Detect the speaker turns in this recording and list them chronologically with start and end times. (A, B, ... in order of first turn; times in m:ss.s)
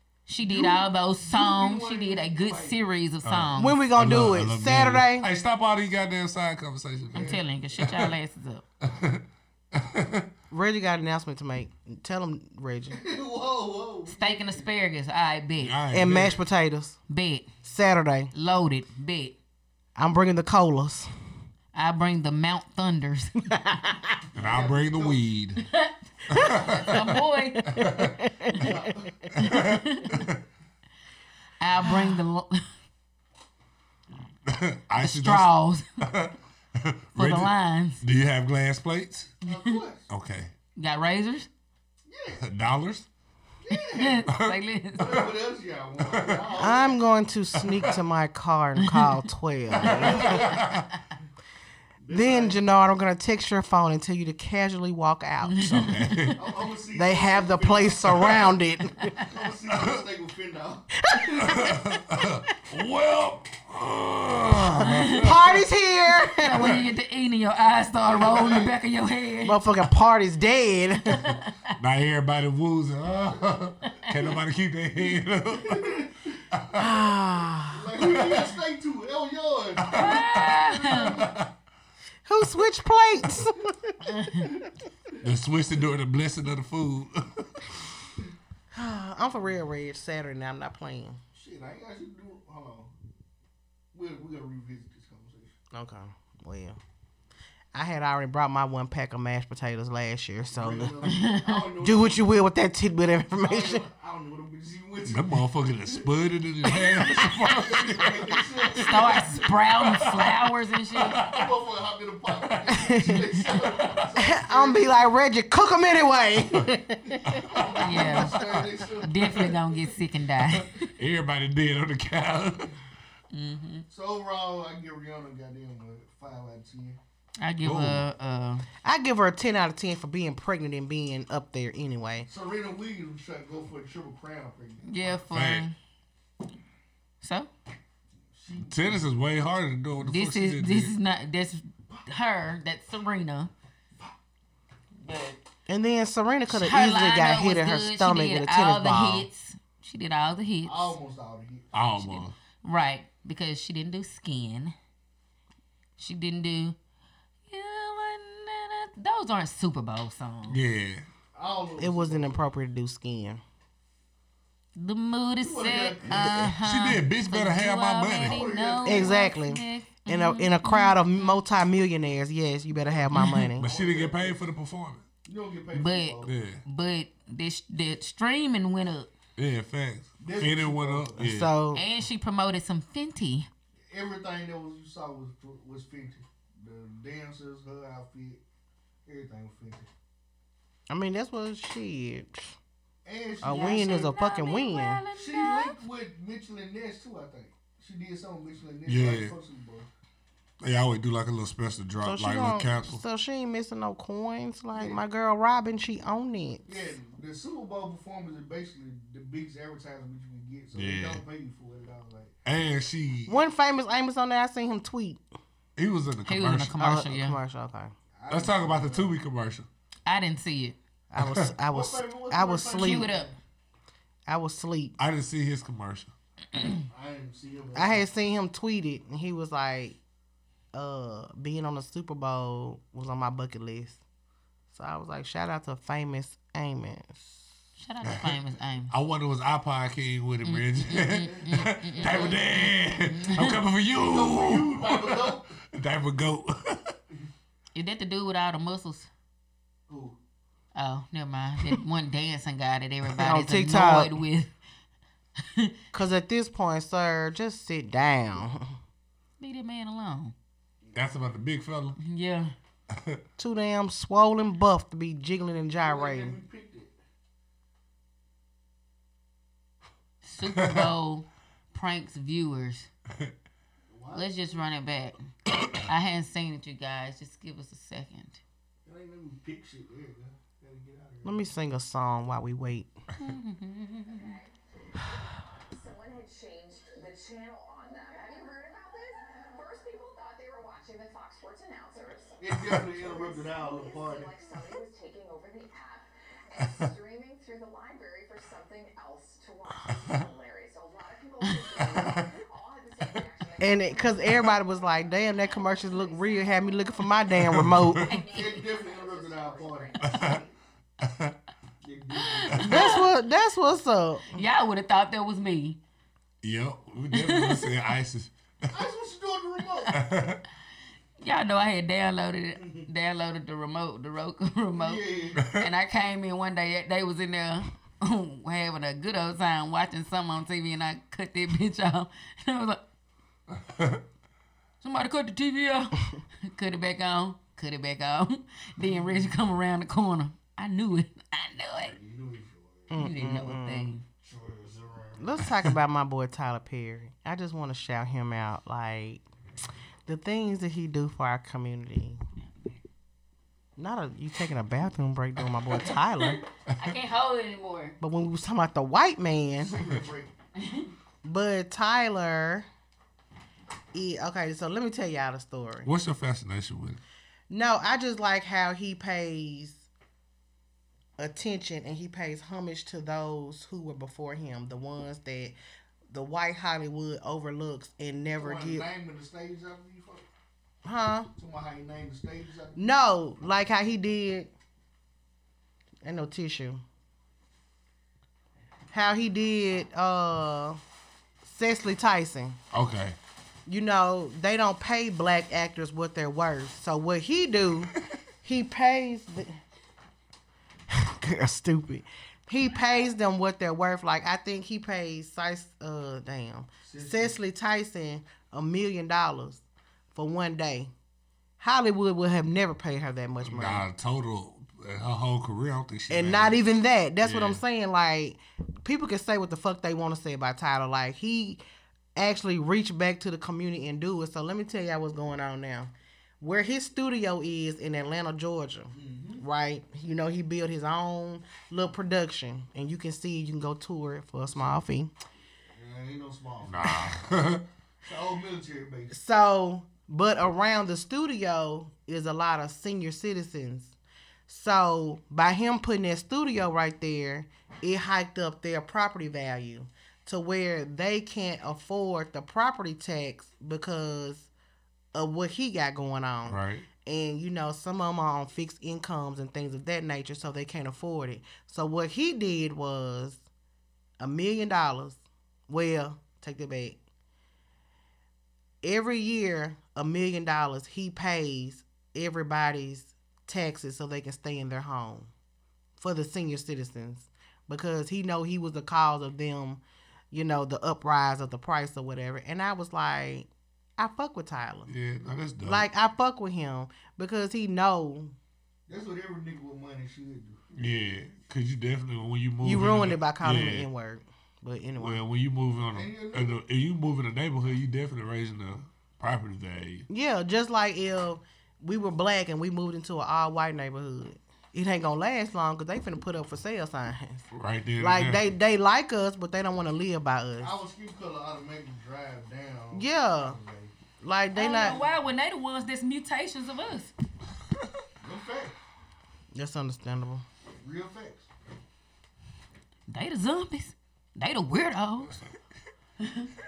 0:00.3-0:03.8 A
0:00.4-0:02.8 B
0:03.2-0:08.1 C
0:03.5-0:05.3 D
0:07.1-0:07.4 B
0:07.1-0:08.6 A
0:08.8-0:10.3 C
0:10.5-0:13.0 D
0:12.9-0:14.7 B
0:14.1-0:15.8 A
0:15.6-0:16.4 C
0:15.9-0:17.0 D
0:17.1-0:17.5 A
0:17.6-0:18.3 D
0:18.3-0:19.4 A
0:20.0-0:21.1 D
0:21.7-0:23.5 A
0:23.5-0:24.2 D
0:24.3-0:25.2 B
0:24.4-0:25.6 C
0:25.6-0:27.9 A
0:26.3-0:27.0 C
0:26.4-0:28.9 D
0:27.7-0:28.2 C
0:28.5-0:29.3 B
0:29.3-0:30.3 C
0:29.4-0:30.2 A
0:31.6-0:32.7 A
0:34.5-0:35.5 C
0:35.0-0:35.9 A
0:36.0-0:39.4 C
0:37.1-0:38.0 A
0:39.4-0:40.1 B
0:40.1-0:40.5 C
0:40.8-0:41.5 A
0:42.1-0:42.4 B
0:42.4-0:43.1 C
0:43.6-0:44.3 B
0:43.7-0:45.1 A
0:44.3-0:45.3 C
0:45.0-0:47.0 B
0:46.1-0:46.6 C
0:46.6-0:50.6 D
0:47.6-0:48.0 C
0:49.7-0:50.9 B
0:49.8-0:50.9 C
0:52.0-0:52.6 B
0:52.1-0:55.8 D
0:55.4-0:56.3 A
0:55.6-0:56.4 C
0:56.3-0:58.5 B
0:56.9-0:59.2 D
0:59.2-1:01.5 B
0:59.7-1:00.0 C
1:01.0-1:02.3 D
1:01.4-1:05.3 C
1:04.6-1:06.8 D
1:04.8-1:05.3 A
1:06.4-1:09.6 A
1:08.0-1:08.7 B
1:09.4-1:11.2 D
1:11.1-1:11.7 A
1:11.8-1:17.0 C
1:14.9-1:16.4 B
1:16.8-1:17.9 D
1:17.7-1:21.4 B
1:18.1-1:18.5 C
1:19.8-1:21.5 C
1:19.9-1:21.2 A
1:22.3-1:24.0 D
1:24.0-1:24.5 A
1:24.4-1:25.2 B
1:25.2-1:27.8 C
1:28.7-1:31.2 D
1:31.3-1:32.9 B
1:33.9-1:35.6 B
1:35.7-1:36.8 D
1:37.7-1:41.0 D
1:40.5-1:42.2 B
1:41.1-1:41.6 A
1:41.8-1:43.8 D
1:43.3-1:49.5 B
1:45.0-1:49.1 C
1:48.8-1:51.2 A
1:49.6-1:51.5 C
1:51.2-1:54.9 B
1:52.4-1:54.0 C
1:52.9-1:53.2 D
1:54.2-1:57.6 D
1:57.0-1:59.6 B
1:57.2-1:58.8 C
1:57.8-1:58.4 A
1:59.0-2:00.9 A
2:00.5-2:02.8 C
2:03.3-2:03.8 A
2:03.9-2:07.0 B
2:07.4-2:08.6 A
2:07.6-2:08.0 C
2:08.8-2:12.3 D
2:12.3-2:14.9 B
2:14.8-2:15.8 A
2:15.3-2:15.6 C
2:17.2-2:17.5 A
2:18.3-2:19.1 B
2:18.6-2:20.9 C
2:20.0-2:23.5 A
2:25.0-2:25.4 A
2:25.7-2:29.2 D
2:26.5-2:30.9 A
2:30.6-2:31.7 B
2:31.7-2:32.3 C
2:32.0-2:34.7 A
2:36.0-2:36.8 A
2:37.5-2:40.6 A
2:40.5-2:41.0 C
2:41.3-2:42.4 B
2:41.8-2:43.4 D
2:44.8-2:51.4 A
2:45.4-2:46.4 B
2:46.2-2:48.4 C
2:48.2-2:49.1 B
2:48.8-2:53.7 D
2:53.1-2:53.5 A
2:53.6-2:55.0 C
2:53.6-2:54.4 B
2:55.2-2:56.3 B
2:55.7-2:59.1 A
2:56.2-2:56.6 C
2:59.4-3:01.5 C
3:00.2-3:01.3 B
3:01.2-3:01.8 D
3:01.7-3:03.5 A
3:03.9-3:08.4 B
3:09.0-3:09.9 B
3:10.9-3:12.6 D
3:13.0-3:14.1 B
3:13.4-3:15.0 D
3:13.5-3:15.8 A
3:15.1-3:19.9 B
3:18.8-3:19.3 C
3:20.6-3:23.0 C
3:22.0-3:26.9 D
3:24.7-3:25.0 B
3:26.7-3:32.3 B
3:30.7-3:31.2 C
3:32.4-3:33.3 C
3:33.2-3:35.2 D
3:35.8-3:36.7 C
3:36.2-3:37.4 A
3:36.8-3:37.9 D
3:38.2-3:39.2 B
3:38.3-3:39.7 C
3:40.0-3:40.8 A
3:41.1-3:43.1 D
3:41.2-3:41.5 C
3:41.7-3:43.3 B
3:42.7-3:43.3 A
3:44.3-3:45.0 D
3:45.0-3:46.1 C
3:46.6-3:46.8 A
3:46.9-3:48.1 B
3:47.7-3:50.0 D
3:50.7-3:54.0 D
3:54.7-3:57.1 D
3:57.8-3:58.9 A
3:58.1-3:58.4 C
3:58.9-4:07.0 C
4:00.4-4:02.4 A
4:01.1-4:02.7 B
4:03.0-4:03.6 A
4:03.9-4:05.5 B
4:07.7-4:09.1 A
4:09.9-4:10.2 B
4:10.7-4:14.5 A
4:13.1-4:14.1 D
4:15.4-4:15.7 A
4:15.9-4:18.7 D
4:19.4-4:20.3 A
4:20.9-4:22.0 C
4:22.0-4:22.5 A
4:22.9-4:23.2 C
4:23.4-4:26.4 D
4:25.8-4:26.9 B
4:30.2-4:32.9 A
4:30.5-4:30.9 C
4:33.9-4:34.4 B
4:34.1-4:35.2 A
4:35.8-4:38.4 A
4:38.8-4:41.5 B
4:41.2-4:42.9 D
4:43.2-4:44.3 A
4:44.0-5:10.5 E
4:52.4-4:54.5 B
4:52.5-4:53.0 C
5:01.8-5:02.2 C
5:03.6-5:08.1 D
5:07.3-5:08.0 C
5:08.3-5:10.2 B
5:10.0-5:10.4 C
5:11.0-5:11.4 C
5:11.8-5:13.0 B
5:12.2-5:13.0 A
5:12.6-5:14.4 D
5:14.3-5:15.8 A
5:16.4-5:18.8 C
5:17.1-5:17.7 A
5:18.7-5:19.9 B
5:19.9-5:20.4 C
5:21.2-5:32.8 A
5:22.6-5:22.9 B
5:24.7-5:25.4 B
5:25.4-5:25.7 C
5:33.6-5:34.0 C
5:34.8-5:42.0 A
5:41.9-5:43.0 B
5:42.9-5:43.9 D
5:42.9-5:44.0 A
5:44.2-5:45.5 B
5:45.2-5:49.2 D
5:50.0-5:52.2 D
5:52.4-5:52.8 A
5:53.8-5:56.4 D
5:55.8-5:58.0 A
5:58.0-5:59.8 D
5:59.6-6:00.3 B
6:00.6-6:00.9 A
6:01.2-6:02.7 D
6:03.9-6:05.9 D
6:05.8-6:07.0 C
6:07.5-6:09.9 D
6:11.2-6:15.6 D
6:16.1-6:18.8 D
6:18.4-6:20.2 B
6:20.8-6:21.3 D
6:21.4-6:22.9 B
6:22.8-6:24.5 D
6:26.0-6:26.8 D
6:28.9-6:30.8 D
6:31.4-6:32.6 D
6:32.7-6:33.2 C
6:33.7-6:37.9 D
6:38.4-6:39.6 D
6:40.9-6:49.6 D
6:46.8-6:47.4 B
6:50.1-6:50.9 D
6:51.6-6:53.8 D
6:53.4-6:56.6 C
6:56.1-7:01.6 D
6:57.2-6:57.6 C
7:02.2-7:15.1 D
7:08.9-7:09.4 B
7:15.7-7:17.2 B
7:16.6-7:17.6 C
7:18.0-7:19.1 B
7:19.1-7:23.9 D
7:24.5-7:34.5 D
7:35.1-7:43.4 D
7:36.5-7:36.8 C
7:44.2-7:47.0 D
7:48.8-7:55.3 D
7:56.0-8:04.9 D
8:04.9-8:05.9 C
8:05.6-8:08.3 D
8:08.9-8:10.6 B
8:10.8-8:13.8 C
8:12.6-8:15.2 D
8:15.0-8:20.1 C
8:15.9-8:16.6 B
8:20.1-8:27.4 D
8:27.5-8:28.4 C
8:28.0-8:30.7 D
8:30.6-8:33.9 B
8:32.9-8:33.6 D
8:34.2-8:35.0 D
8:34.5-8:37.1 A
8:38.2-8:38.8 B
8:39.5-8:40.4 D
8:40.8-8:41.5 B
8:43.1-8:45.4 A
8:46.2-8:46.5 A